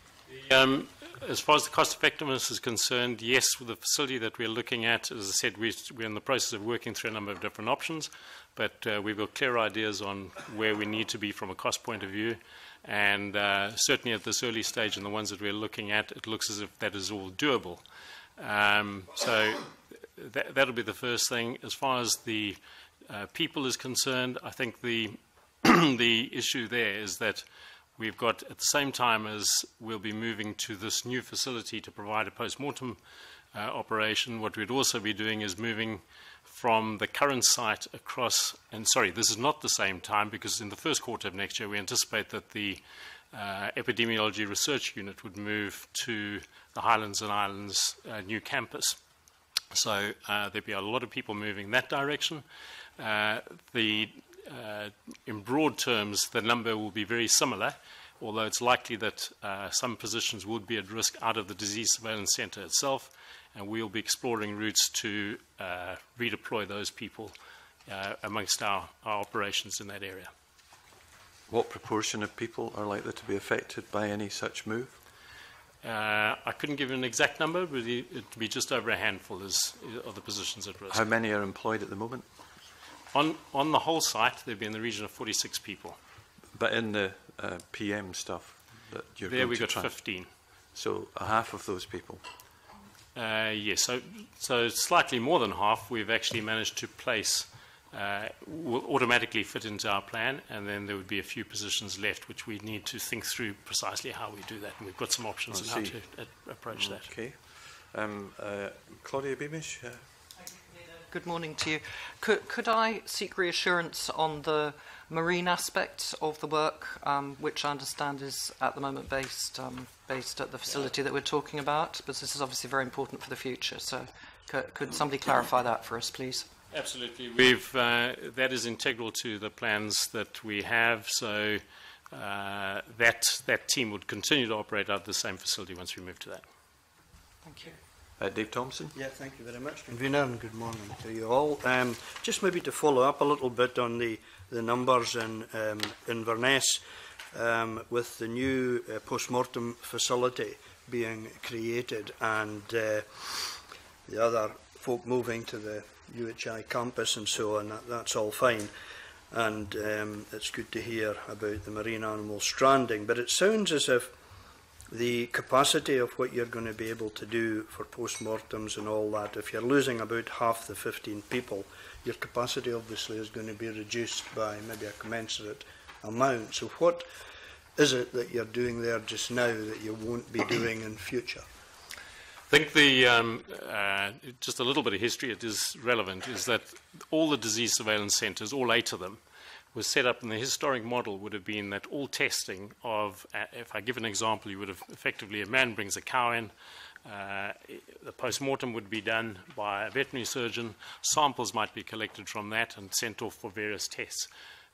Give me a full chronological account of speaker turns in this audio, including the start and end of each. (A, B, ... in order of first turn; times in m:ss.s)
0:00.3-0:17.8 A
0:18.4-0:33.0 A
0:33.5-0:49.0 A
0:49.7-0:52.4 A
0:53.0-1:07.3 A
1:07.8-1:10.3 A
1:11.5-1:15.0 B
1:15.8-1:21.0 A
1:20.9-1:22.3 B
1:23.1-1:26.0 A
1:26.5-1:32.2 B
1:29.3-1:30.3 A
1:33.1-1:47.1 A
1:45.5-1:50.2 B
1:51.1-2:06.5 C
2:06.7-2:16.4 A
2:17.4-2:17.8 C
2:18.2-2:18.9 B
2:18.9-2:38.7 D
2:39.3-2:44.2 D
2:44.9-2:57.1 D
2:57.8-3:01.4 D
3:02.5-3:09.2 A
3:09.7-3:16.5 A
3:17.0-3:24.3 A